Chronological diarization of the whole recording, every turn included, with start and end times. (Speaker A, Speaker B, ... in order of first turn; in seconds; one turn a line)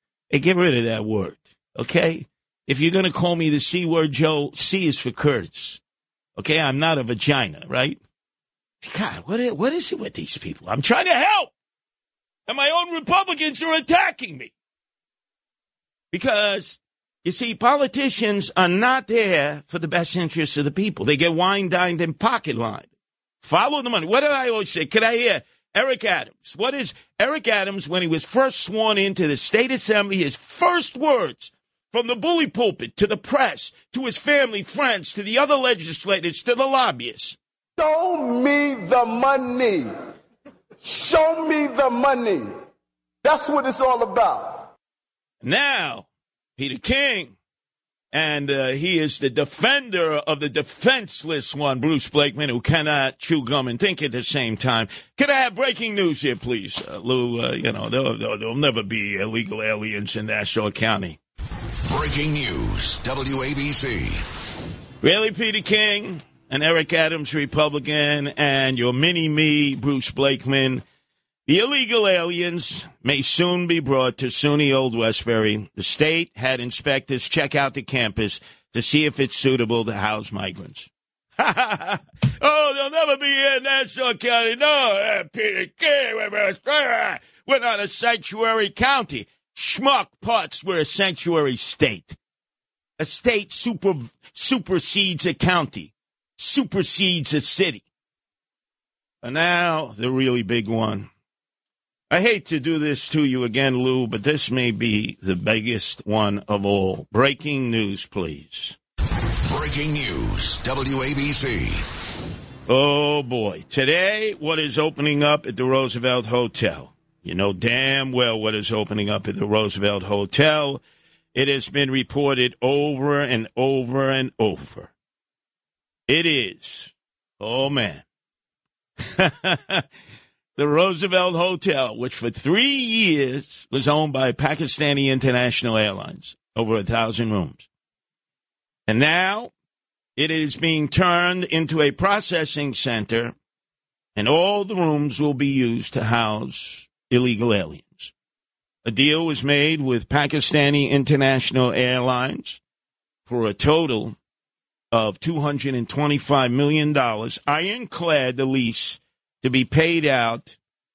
Speaker A: 0.3-5.8
Speaker A: 6.4-8.0
Speaker A: 8.8-11.5
Speaker A: 12.5-14.5
Speaker A: 16.1-22.9
Speaker A: 23.4-37.4
Speaker B: 37.8-39.9
Speaker B: 40.8-42.5
Speaker B: 43.2-44.7
Speaker A: 45.4-47.3
Speaker A: 48.1-61.2
Speaker C: 61.9-64.2
Speaker A: 65.0-70.8
Speaker A: 71.5-92.2
Speaker A: 93.0-97.8
Speaker A: 99.2-101.1
Speaker A: 102.1-108.8
Speaker C: 109.5-111.8
Speaker A: 112.7-120.8
Speaker A: 121.3-124.9
Speaker A: 126.1-128.0
Speaker A: 129.1-129.8
Speaker A: 130.6-137.7
Speaker A: 138.9-139.5
Speaker A: 140.2-143.3
Speaker A: 144.2-148.1
Speaker A: 148.8-152.6
Speaker A: 153.3-154.2
Speaker A: 154.9-160.6